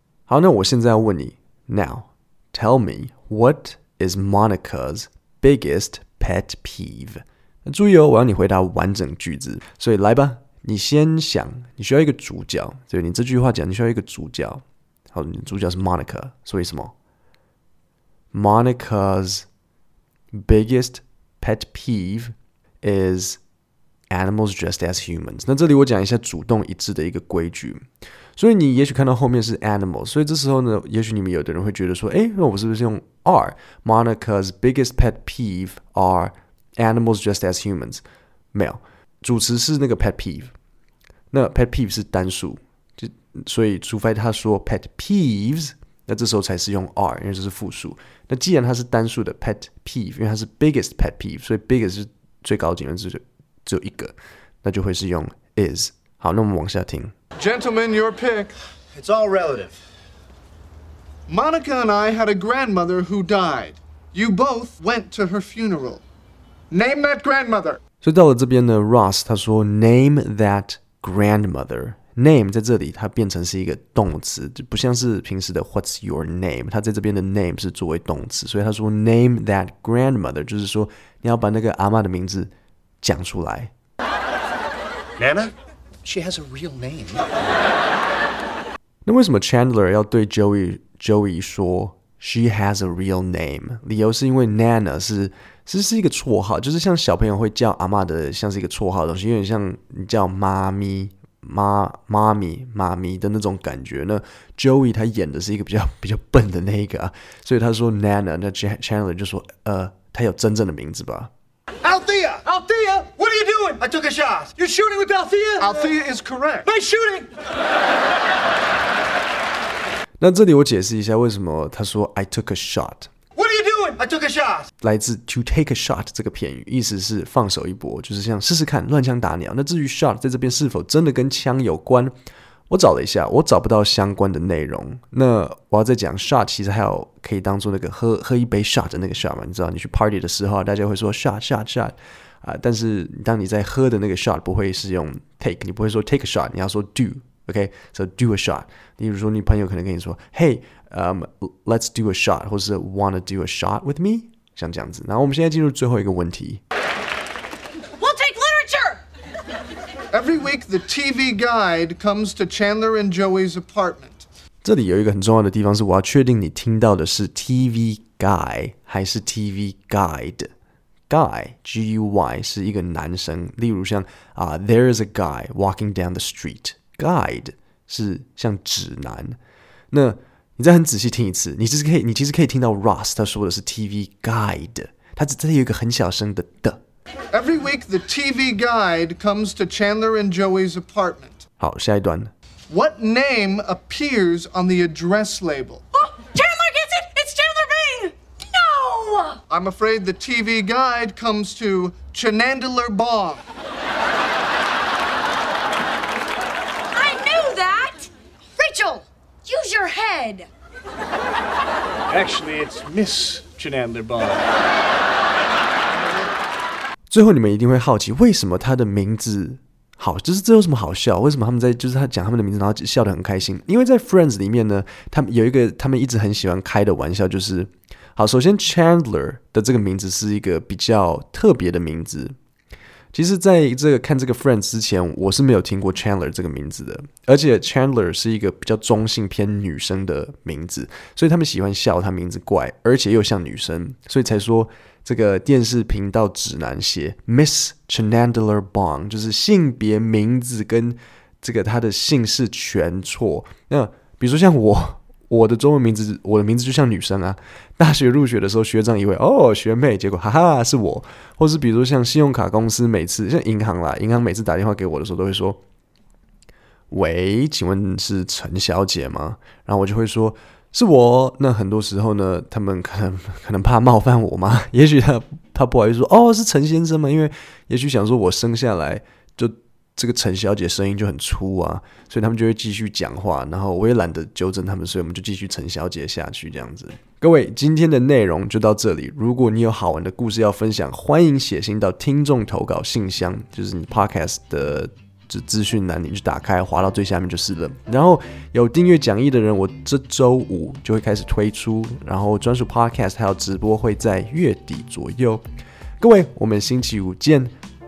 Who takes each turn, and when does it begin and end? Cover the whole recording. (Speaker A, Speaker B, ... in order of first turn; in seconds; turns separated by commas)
Speaker A: 0.3-16.9, Speaker A: 18.3-19.4, Speaker A: 20.3-23.4, Speaker A: 24.1-27.8, Speaker A: 28.4-40.5, Speaker A: 41.3-57.1, Speaker B: 57.4-58.5, Speaker C: 58.9-59.8, Speaker B: 61.3-66.0, Speaker B: 66.7-67.8, Speaker A: 68.0-82.5, Speaker A: 83.0-83.7, Speaker C: 85.2-85.5, Speaker C: 86.0-87.3, Speaker A: 89.0-111.3, Speaker C: 111.8-115.9, Speaker B: 115.6-116.7, Speaker C: 116.7-117.3, Speaker A: 120.2-123.1, Speaker C: 123.3-124.7, Speaker A: 124.8-132.1, Speaker A: 132.7-156.6, Speaker D: 158.0-159.0, Speaker B: 160.1-164.3, Speaker A: 164.6-170.5, Speaker A: 171.1-179.4, Speaker A: 179.9-186.8, Speaker B: 187.3-191.4, Speaker A: 191.6-192.3, Speaker B: 192.7-195.8, Speaker D: 195.9-199.4, Speaker B: 199.5-203.4, Speaker D: 206.9-210.5, Speaker C: 212.1-214.4, Speaker A: 217.1-232.3, Speaker A: 233.1-265.6, Speaker A: 266.9-305.4, Speaker A: 306.0-307.5